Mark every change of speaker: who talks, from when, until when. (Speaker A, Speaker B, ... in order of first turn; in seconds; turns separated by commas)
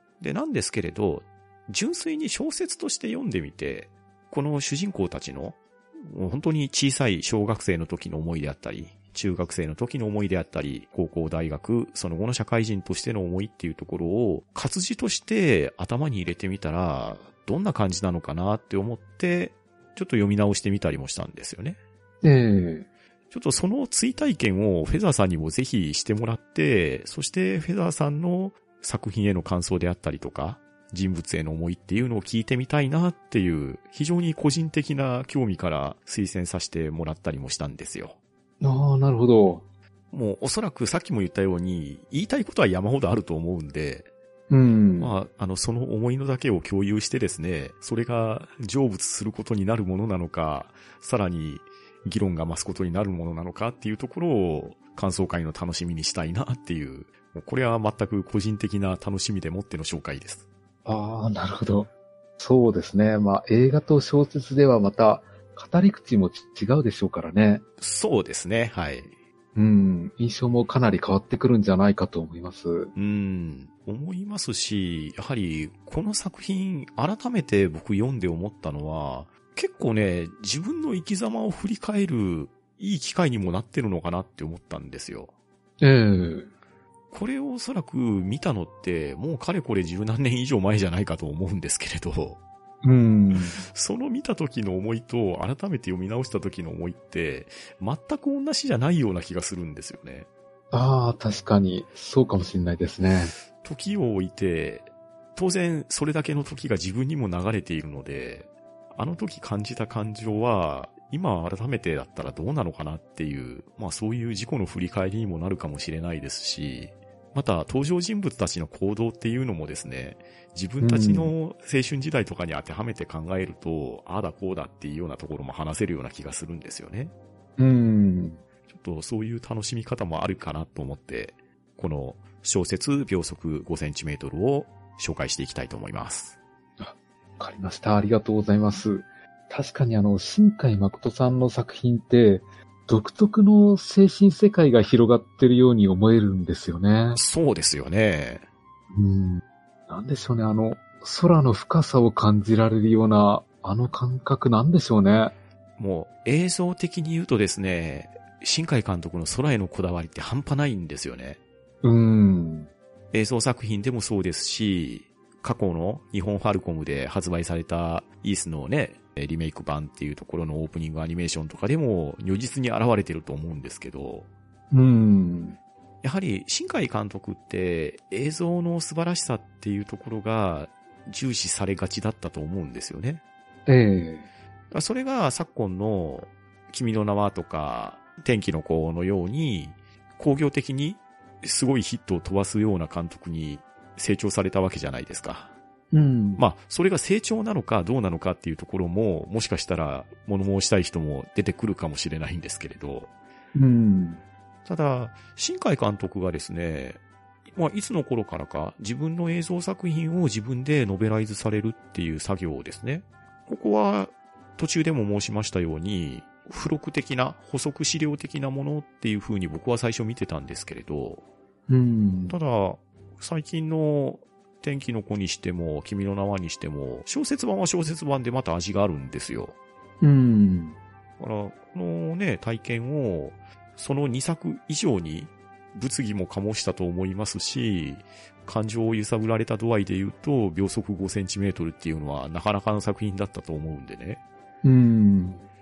Speaker A: 0.2-21.8, Speaker B: 22.2-22.9, Speaker A: 23.3-38.2, Speaker B: 38.6-39.6, Speaker A: 40.1-44.1, Speaker B: 44.5-45.1, Speaker A: 45.0-60.4, Speaker B: 60.9-67.6, Speaker A: 67.8-69.1, Speaker B: 69.5-72.9, Speaker A: 72.9-85.3, Speaker B: 85.8-86.5, Speaker A: 87.1-92.4, Speaker B: 92.8-93.6, Speaker A: 93.7-100.2, Speaker B: 100.7-103.3, Speaker A: 103.5-127.1, Speaker B: 120.8-121.3, Speaker B: 127.6-128.4, Speaker A: 128.7-136.4, Speaker B: 136.8-147.2, Speaker A: 147.1-148.4, Speaker B: 148.9-155.3, Speaker A: 155.8-161.4, Speaker B: 161.8-162.7, Speaker A: 163.1-174.3, Speaker B: 174.7-175.6, Speaker A: 176.0-183.2, Speaker B: 183.7-184.3, Speaker A: 184.7-195.5, Speaker B: 195.9-196.4, Speaker A: 196.4-203.1, Speaker B: 203.5-204.2, Speaker A: 204.7-207.0, Speaker A: 207.5-221.2, Speaker B: 221.7-222.3, Speaker A: 222.3-229.5, Speaker B: 230.0-230.8, Speaker A: 231.2-244.2, Speaker B: 244.6-245.4